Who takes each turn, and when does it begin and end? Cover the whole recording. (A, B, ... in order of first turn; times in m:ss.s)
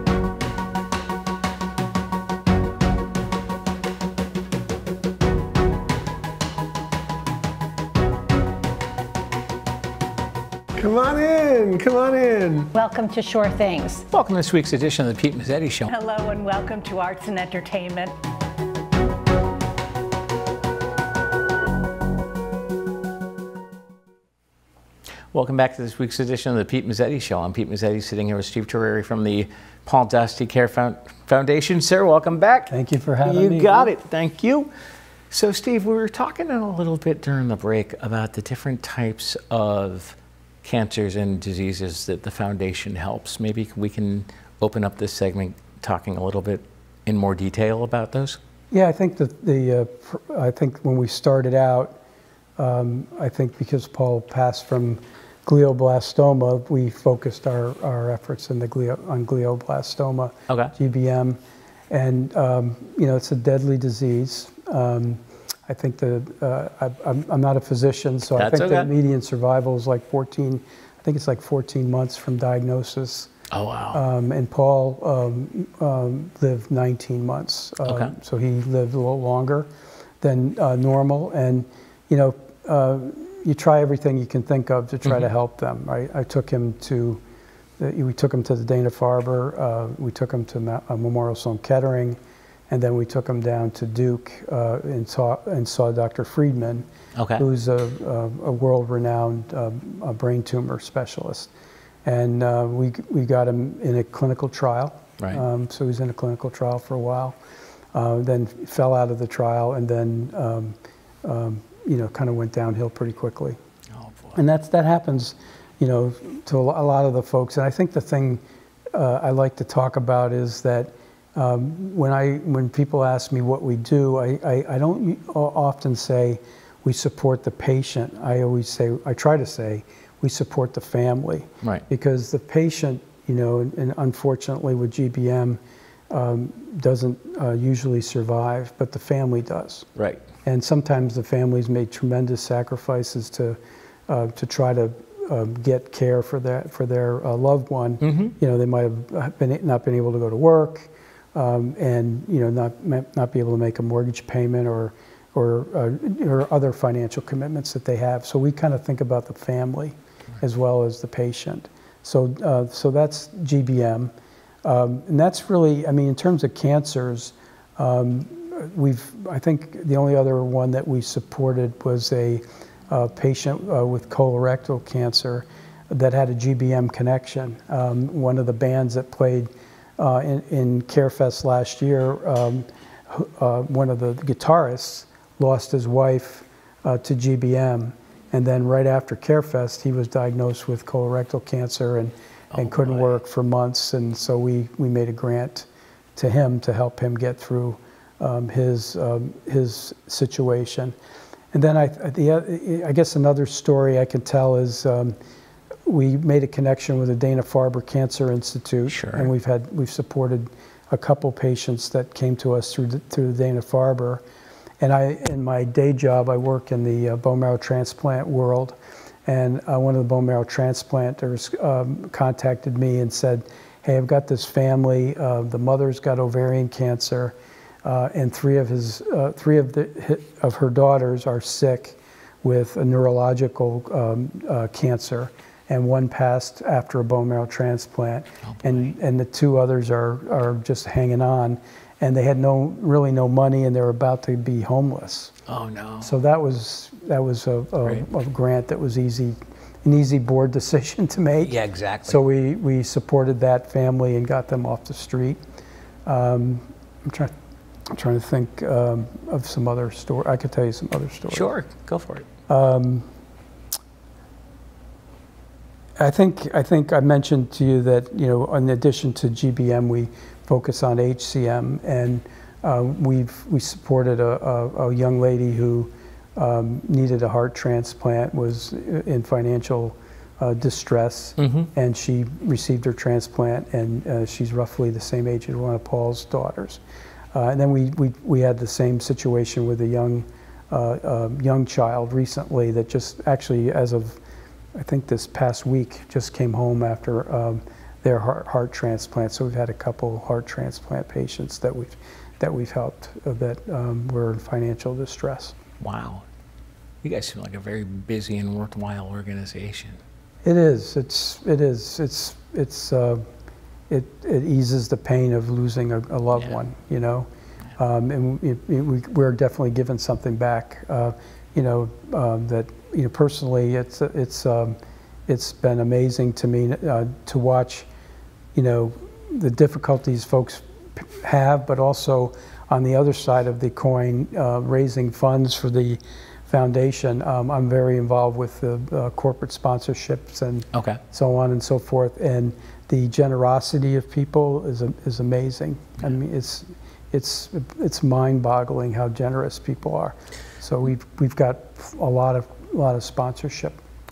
0:10.8-0:12.7 A
0:12.7-0:14.0 B
0:14.1-0:15.9 C
0:15.9-0:18.1 B
0:25.3-0:32.7 C
0:32.7-0:33.9 D
0:33.2-0:34.7 C
0:35.3-0:48.4 C
0:48.7-0:52.0 D
0:52.6-1:01.4 D
1:01.9-1:13.3 D
1:08.4-1:08.9 C
1:13.5-1:14.0 C
1:13.9-1:19.7 D
1:17.8-1:18.2 C
1:20.2-1:27.2 D
1:27.8-1:32.2 D
1:32.7-1:36.8 D
1:37.2-1:37.4 C
1:37.4-1:41.5 D
1:42.0-1:47.4 D
1:47.9-1:53.6 D
1:54.0-1:54.4 C
1:54.4-1:58.4 D
1:58.9-2:15.6 D
2:16.1-2:19.9 D
2:20.0-2:20.2 C
2:20.4-2:44.1 D
2:28.0-2:28.3 C
2:44.6-3:21.0 D
3:12.5-3:13.1 C
3:21.5-3:25.2 D
3:25.9-3:34.2 D
3:28.9-3:29.3 C
3:34.8-4:05.3 D
3:58.4-3:58.9 C
4:05.5-4:06.1 C
4:06.0-4:15.4 D
4:11.4-4:12.2 C
4:16.1-4:17.3 D
4:17.9-4:21.5 D
4:21.3-4:22.3 C
4:22.5-4:23.1 D
4:26.0-4:46.8 D
4:41.4-4:41.7 C
4:47.3-4:54.2 D
4:54.8-5:05.6 D
5:05.8-5:06.2 C
5:07.0-5:10.0 C
5:10.4-5:13.2 D
5:13.9-5:27.9 D
5:28.6-5:53.8 D
5:40.7-5:41.0 C